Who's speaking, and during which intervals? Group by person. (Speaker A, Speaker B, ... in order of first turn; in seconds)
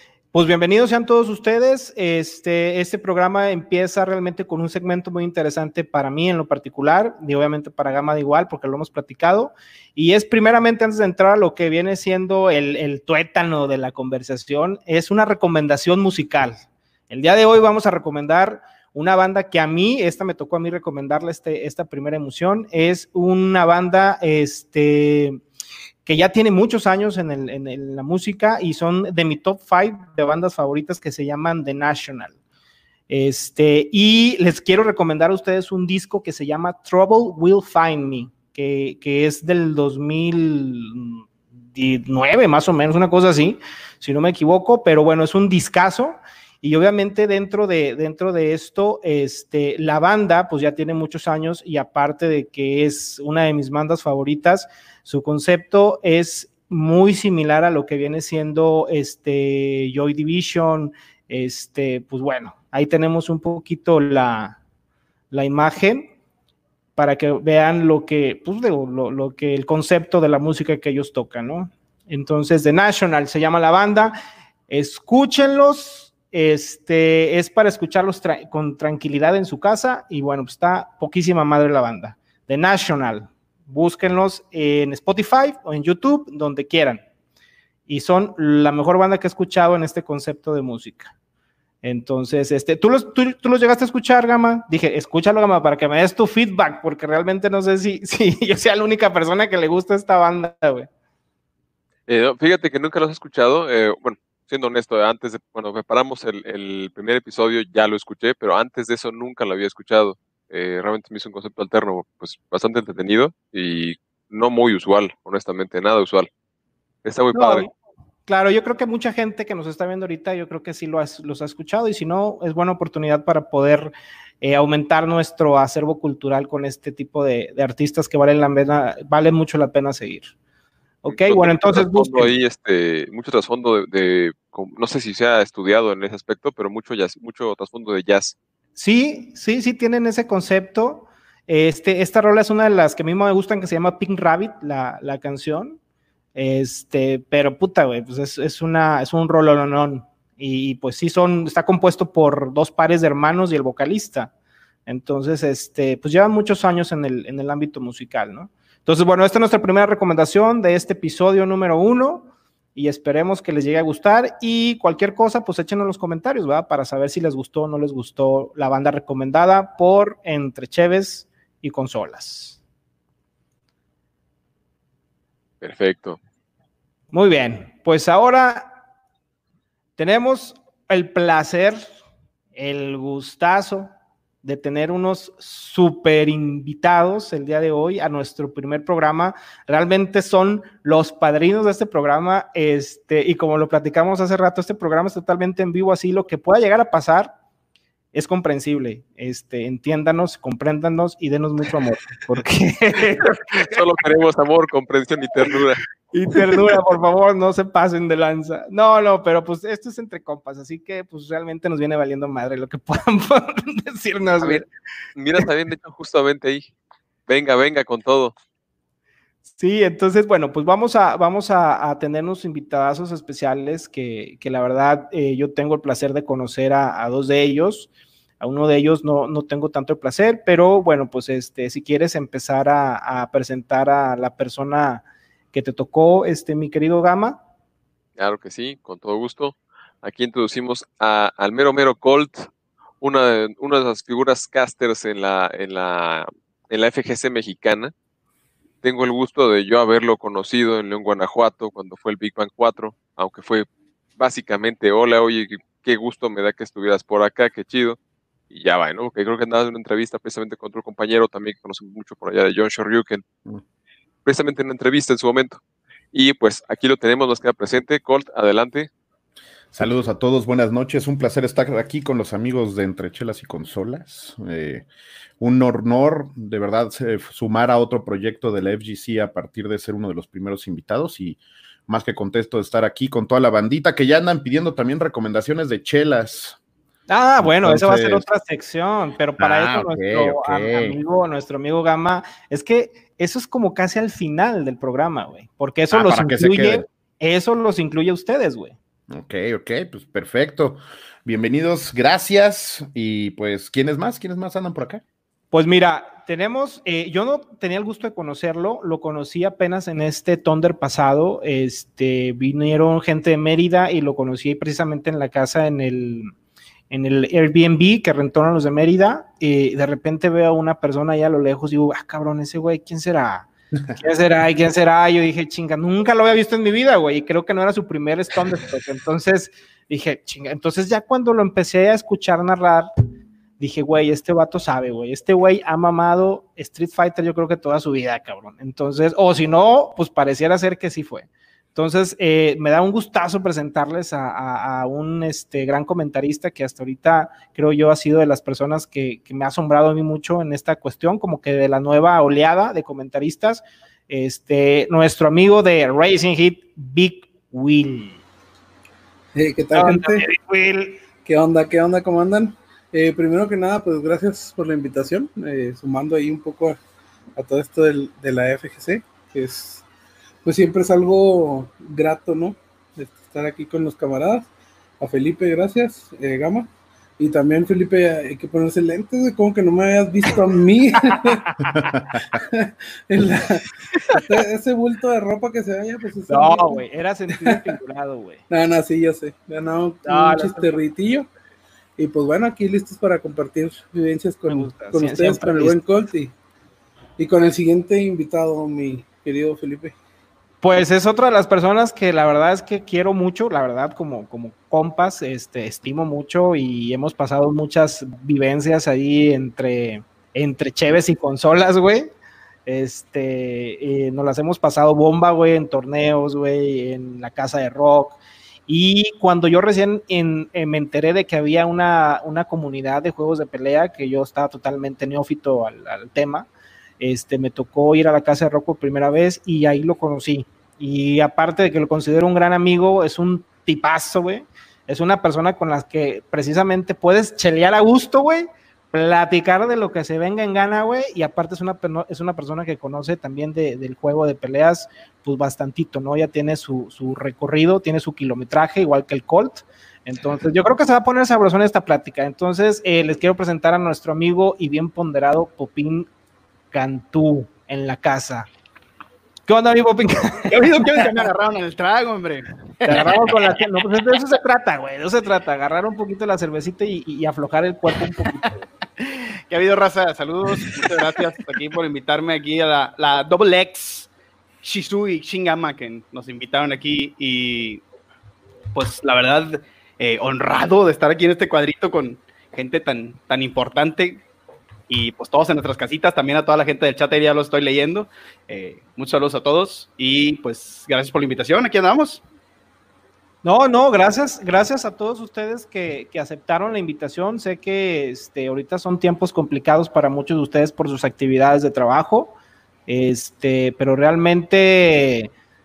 Speaker A: 0.3-25.4, 26.0-32.3, 33.1-64.6, 65.3-66.1, 67.0-74.2, 74.7-87.0, 87.9-91.1, 91.8-100.9, 117.3-117.7, 118.3-130.3, 131.0-132.3, 138.8-145.8, 146.3-154.3, 154.8-172.6, 177.1-178.8, 180.0-181.9, 182.6-183.9, 184.4-197.3, 198.1-203.7, 206.1-214.6, 219.6-237.4, 287.1-298.8, 305.5-316.3, 316.9-332.9, 333.6-358.2, 359.7-361.0, 381.2-381.9, 383.9-384.2, 386.3-388.4, 390.0-390.7, 394.5-395.8, 400.6-412.1, 412.6-426.5, 427.0-456.1, 456.7-458.5, 459.5-460.6, 462.8-468.6, 493.4-502.4, 502.9-505.3
Speaker B: 102.1-116.3, 117.0-117.6, 131.1-138.3, 175.6-176.2, 203.3-205.8, 215.2-216.7, 217.3-218.3, 238.2-242.5, 243.0-247.9, 248.8-253.7, 254.2-258.0, 258.5-263.2, 264.2-265.6, 266.1-268.9
Speaker C: 269.7-274.9, 275.4-286.6, 287.4-288.2, 289.4-291.0, 295.9-296.8, 299.1-305.0, 381.7-382.3
Speaker D: 359.3-360.2, 361.2-366.8, 367.4-369.8, 370.4-374.5, 375.0-381.5, 382.3-386.8, 387.4-387.8, 388.5-391.3, 392.0-396.3, 397.2-399.9
Speaker E: 460.4-463.1, 469.0-474.1, 474.6-477.8, 478.7-484.2, 484.9-492.2